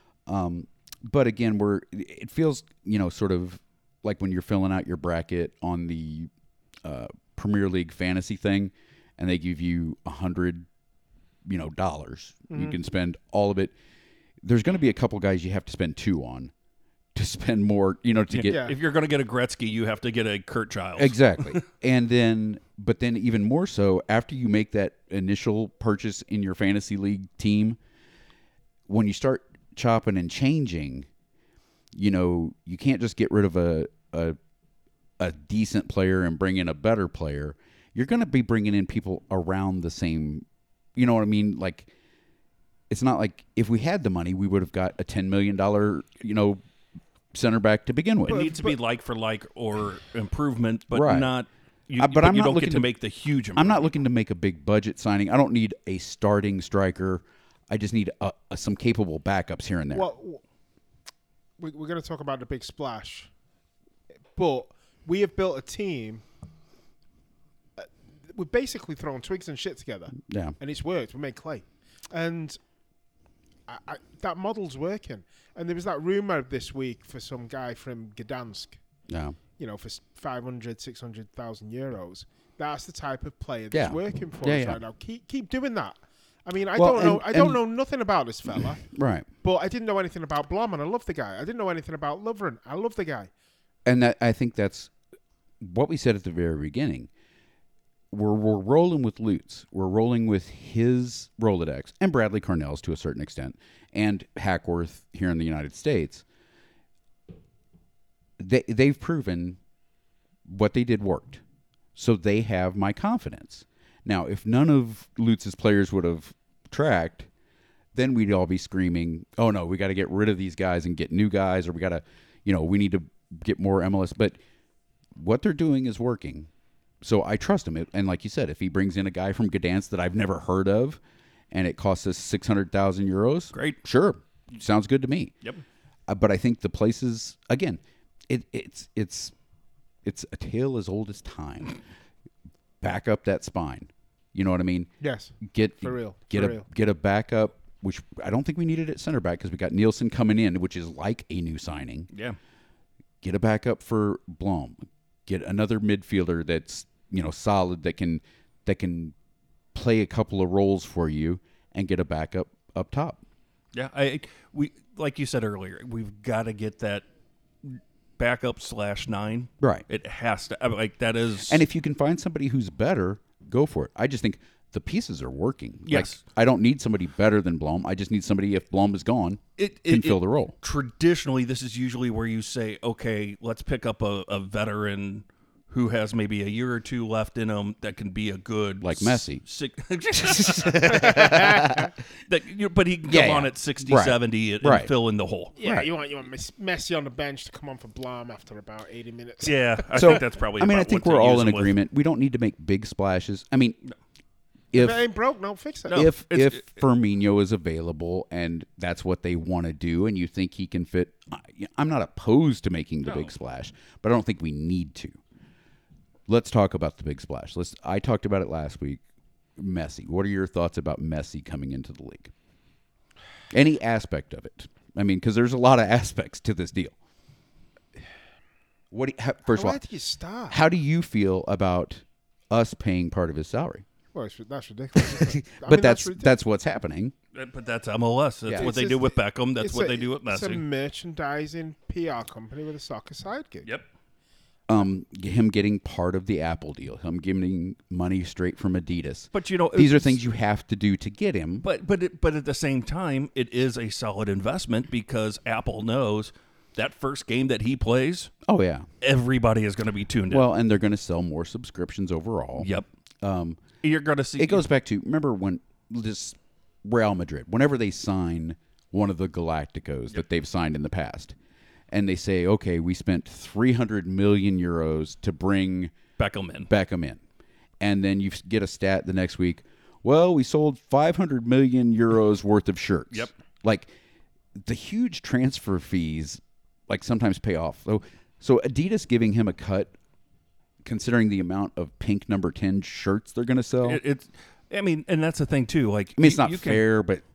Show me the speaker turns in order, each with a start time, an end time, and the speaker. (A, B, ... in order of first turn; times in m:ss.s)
0:00.3-0:06.3 A
0:06.8-0:10.7 A
0:11.4-0:13.7 A
0:12.5-0:12.8 B
0:14.4-0:16.5 A
0:17.1-0:18.6 A
0:18.3-0:21.6 C
0:18.5-0:18.8 B
0:21.0-0:27.8 A
0:28.9-0:31.1 A
0:31.9-0:34.4 A
0:35.2-0:41.9 A
0:42.9-0:46.6 A
0:47.3-0:48.4 A
0:48.3-0:48.8 B
0:48.3-0:53.8 C
0:50.9-0:51.3 A
0:52.0-0:52.9 A
0:53.5-1:00.1 A
0:59.9-1:00.4 B
1:01.6-1:03.3 B
1:04.3-1:06.2 B
1:07.8-1:12.6 B
1:10.2-1:10.5 A
1:13.7-1:18.8 B
1:19.1-1:19.4 A
1:19.6-1:28.8 B
1:23.7-1:24.8 A
1:26.8-1:27.6 A
1:28.8-1:29.3 A
1:29.4-1:33.3 B
1:33.8-1:34.9 A
1:35.6-1:37.1 A
1:38.1-1:46.2 A
1:48.4-1:49.6 A
1:50.4-1:51.4 A
1:51.9-1:57.3 A
1:57.9-2:04.4 A
2:05.1-2:06.5 A
2:07.0-2:11.0 A
2:11.5-2:15.3 A
2:13.5-2:13.8 C
2:16.1-2:19.3 A
2:20.0-2:21.8 A
2:22.8-2:32.1 A
2:25.0-2:26.7 B
2:32.1-2:32.4 C
2:33.2-2:39.1 A
2:39.7-2:43.2 A
2:43.7-2:47.0 C
2:47.6-2:51.6 C
2:49.6-2:49.8 A
2:51.5-3:00.5 A
2:55.9-2:56.2 C
2:59.6-3:11.7 C
3:08.8-3:09.4 A
3:10.1-3:11.9 A
3:10.9-3:11.9 B
3:12.3-3:15.5 C
3:13.1-3:14.9 A
3:15.6-3:20.2 B
3:15.6-3:15.9 A
3:19.4-3:21.8 C
3:19.9-3:23.8 A
3:24.7-3:25.0 A
3:24.7-3:26.1 B
3:25.9-3:26.7 C
3:25.9-3:35.2 A
3:33.0-3:33.3 C
3:36.3-3:39.0 A
3:39.6-3:42.3 A
3:43.5-3:46.9 A
3:48.9-3:49.8 A
3:49.5-3:50.6 B
3:50.5-3:53.8 A
3:54.1-3:56.3 B
3:55.0-3:57.1 A
3:57.3-4:00.6 C
3:58.6-4:03.7 B
4:04.7-4:11.6 A
4:09.3-4:10.2 C
4:11.6-4:18.3 C
4:18.4-4:18.9 A
4:19.0-4:20.5 C
4:20.3-4:22.7 A
4:22.6-4:22.8 C
4:23.2-4:23.6 A
4:23.8-4:24.6 C
4:24.4-4:31.4 A
4:31.9-4:35.9 A
4:36.2-4:36.7 C
4:36.7-4:37.2 A
4:37.8-4:43.9 A
4:44.6-4:49.9 A
4:50.8-4:54.0 A
4:53.8-4:56.8 C
4:56.2-4:57.2 A